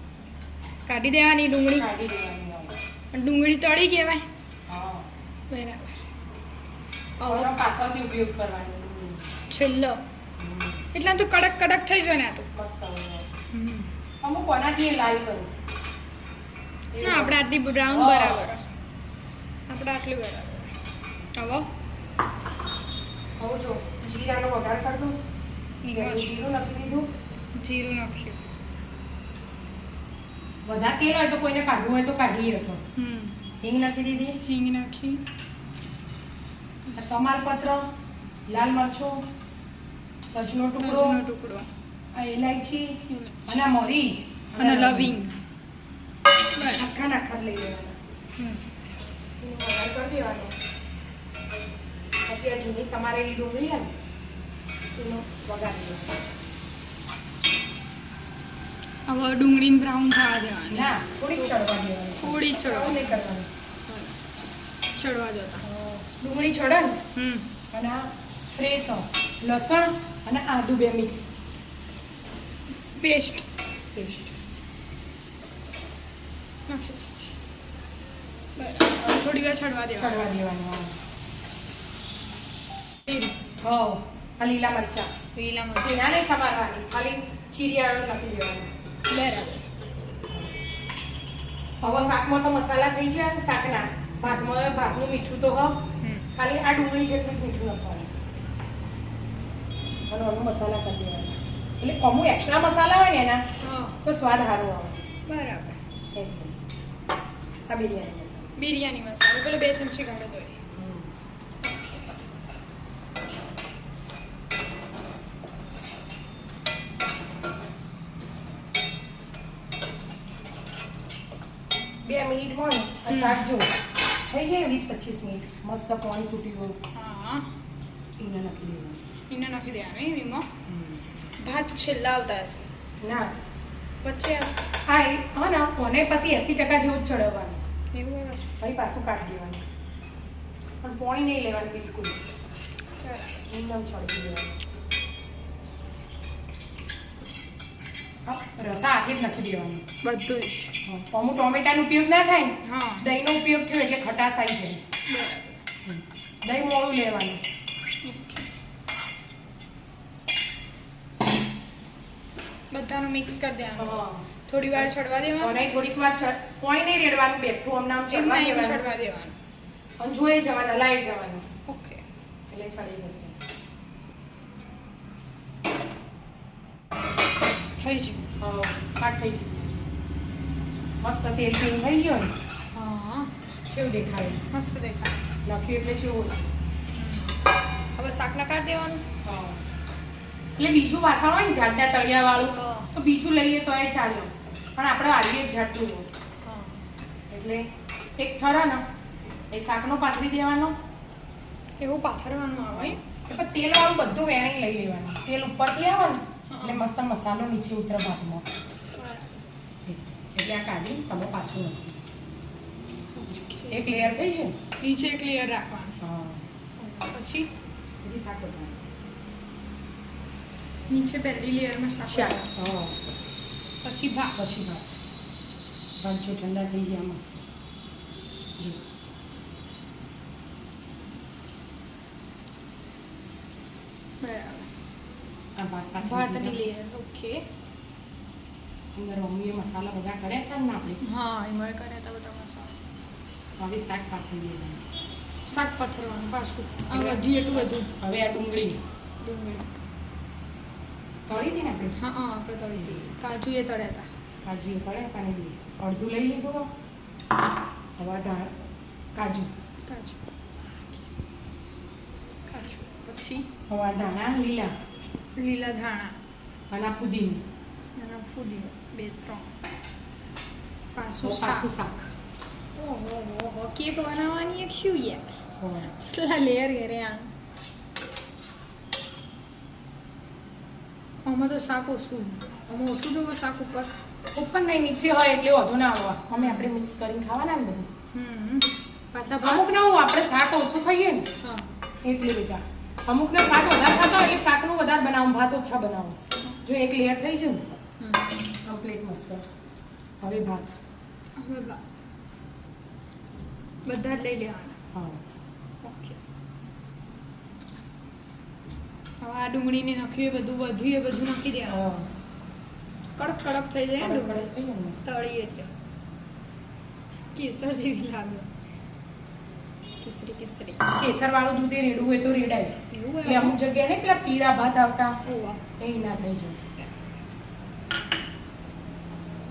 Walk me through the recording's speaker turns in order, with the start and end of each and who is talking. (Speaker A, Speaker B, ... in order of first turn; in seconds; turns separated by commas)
Speaker A: 0.8-1.9, Speaker B: 1.7-2.8, Speaker A: 3.1-4.2, Speaker B: 4.7-5.1, Speaker A: 5.5-6.1, Speaker A: 7.2-7.6, Speaker B: 7.2-9.3, Speaker A: 9.5-10.0, Speaker B: 10.4-11.1, Speaker A: 10.9-12.5, Speaker B: 12.5-13.3, Speaker A: 13.5-13.9, Speaker B: 14.2-15.5, Speaker B: 16.9-18.5, Speaker A: 17.0-18.6, Speaker A: 19.7-20.7, Speaker A: 21.3-21.7, Speaker B: 23.4-25.2, Speaker A: 25.8-26.4, Speaker B: 25.9-27.1, Speaker A: 27.6-28.4, Speaker B: 30.6-32.8, Speaker A: 33.0-33.4, Speaker B: 33.6-34.4, Speaker A: 34.4-35.2, Speaker B: 37.0-37.8, Speaker B: 38.5-39.2, Speaker B: 40.3-41.2, Speaker A: 40.8-41.7, Speaker B: 42.1-45.2, Speaker A: 43.1-43.6, Speaker A: 44.6-45.4, Speaker A: 46.5-46.9, Speaker B: 46.7-48.0, Speaker A: 48.4-48.6, Speaker B: 49.4-50.5, Speaker B: 52.3-53.9, Speaker B: 54.9-56.2, Speaker A: 59.1-60.9, Speaker B: 60.7-63.5, Speaker A: 62.2-63.2, Speaker A: 63.9-64.2, Speaker A: 64.9-65.6, Speaker B: 65.6-67.0, Speaker A: 67.1-67.5, Speaker B: 67.7-71.3, Speaker A: 73.0-73.4, Speaker B: 73.9-74.3, Speaker A: 76.7-77.3, Speaker A: 78.6-80.2, Speaker B: 80.0-81.0, Speaker A: 83.0-83.3, Speaker B: 83.6-85.1, Speaker A: 85.3-86.0, Speaker B: 85.8-88.7, Speaker A: 89.1-89.6, Speaker A: 91.8-92.2, Speaker B: 91.8-95.8, Speaker A: 96.0-96.3, Speaker B: 96.3-98.1, Speaker B: 100.1-103.4, Speaker A: 103.6-104.0, Speaker B: 104.0-105.0, Speaker A: 105.2-105.8, Speaker B: 106.1-106.6, Speaker B: 107.7-108.6, Speaker A: 108.6-110.6, Speaker B: 110.7-111.1, Speaker A: 111.6-112.1, Speaker B: 122.0-123.7, Speaker A: 123.1-123.4, Speaker B: 124.3-126.8, Speaker A: 126.9-127.5, Speaker B: 128.2-129.0, Speaker A: 129.3-130.5, Speaker B: 130.7-131.0, Speaker A: 131.4-132.7, Speaker B: 133.0-133.3, Speaker A: 134.0-134.6, Speaker B: 134.8-137.6, Speaker A: 137.9-138.5, Speaker B: 138.6-139.6, Speaker B: 140.8-142.2, Speaker A: 143.0-143.5, Speaker B: 143.5-144.5, Speaker B: 148.2-149.8, Speaker A: 150.0-150.7, Speaker B: 150.8-154.8, Speaker A: 152.6-153.0, Speaker A: 155.1-155.6, Speaker B: 155.8-157.4, Speaker A: 158.0-158.5, Speaker A: 162.7-165.6, Speaker B: 163.8-168.8, Speaker A: 168.1-169.3, Speaker B: 170.0-171.4, Speaker A: 171.7-172.0, Speaker B: 172.5-173.3, Speaker A: 177.8-178.3, Speaker B: 178.4-179.9, Speaker B: 181.0-182.3, Speaker A: 182.7-183.3, Speaker B: 183.7-184.4, Speaker A: 184.5-185.2, Speaker B: 185.4-186.5, Speaker A: 186.9-187.4, Speaker A: 187.9-189.0, Speaker B: 189.2-189.6, Speaker B: 190.6-196.1, Speaker A: 192.5-192.9, Speaker A: 196.4-196.8, Speaker B: 197.3-197.7, Speaker B: 198.2-198.8, Speaker B: 199.5-200.7, Speaker A: 201.8-203.0, Speaker B: 202.7-208.4, Speaker A: 206.5-206.9, Speaker A: 208.9-209.4, Speaker B: 209.8-212.0, Speaker A: 213.1-214.0, Speaker B: 213.7-214.6, Speaker A: 214.8-216.0, Speaker B: 216.0-216.5, Speaker A: 216.8-217.5, Speaker B: 218.0-218.8, Speaker A: 220.9-222.5, Speaker B: 222.0-223.0, Speaker A: 223.8-224.4, Speaker B: 224.4-224.9, Speaker B: 226.0-227.4, Speaker A: 234.2-234.8, Speaker B: 235.6-236.7, Speaker A: 236.0-237.4, Speaker B: 238.9-241.0, Speaker A: 241.0-242.7, Speaker B: 243.6-244.8, Speaker A: 245.5-247.9, Speaker B: 246.9-248.8, Speaker A: 249.2-249.7, Speaker B: 251.3-252.0, Speaker A: 251.9-254.1, Speaker B: 254.4-256.7, Speaker B: 258.0-258.5, Speaker B: 259.1-259.5, Speaker A: 259.9-260.2, Speaker A: 262.5-263.5, Speaker B: 263.7-264.7, Speaker A: 265.4-266.2, Speaker B: 266.7-267.4, Speaker A: 267.9-269.5, Speaker A: 270.9-271.7, Speaker B: 271.2-272.1, Speaker A: 272.8-277.3, Speaker B: 275.6-275.9, Speaker A: 281.2-283.9, Speaker B: 284.3-287.9, Speaker A: 286.4-286.7, Speaker A: 288.1-289.7, Speaker B: 289.4-291.3, Speaker A: 291.4-291.7, Speaker B: 292.0-297.6, Speaker A: 298.0-298.4, Speaker B: 298.6-299.4, Speaker B: 300.2-300.8, Speaker A: 301.4-301.8, Speaker A: 303.8-304.8, Speaker B: 304.9-305.2, Speaker A: 305.8-306.2, Speaker A: 309.2-311.9, Speaker B: 311.7-312.1, Speaker A: 313.1-314.5, Speaker B: 314.0-315.0, Speaker A: 315.0-315.7, Speaker A: 317.3-318.5, Speaker A: 320.0-320.9, Speaker B: 320.9-325.2, Speaker A: 322.9-323.6, Speaker A: 325.2-325.6, Speaker B: 325.8-326.6, Speaker A: 326.8-327.0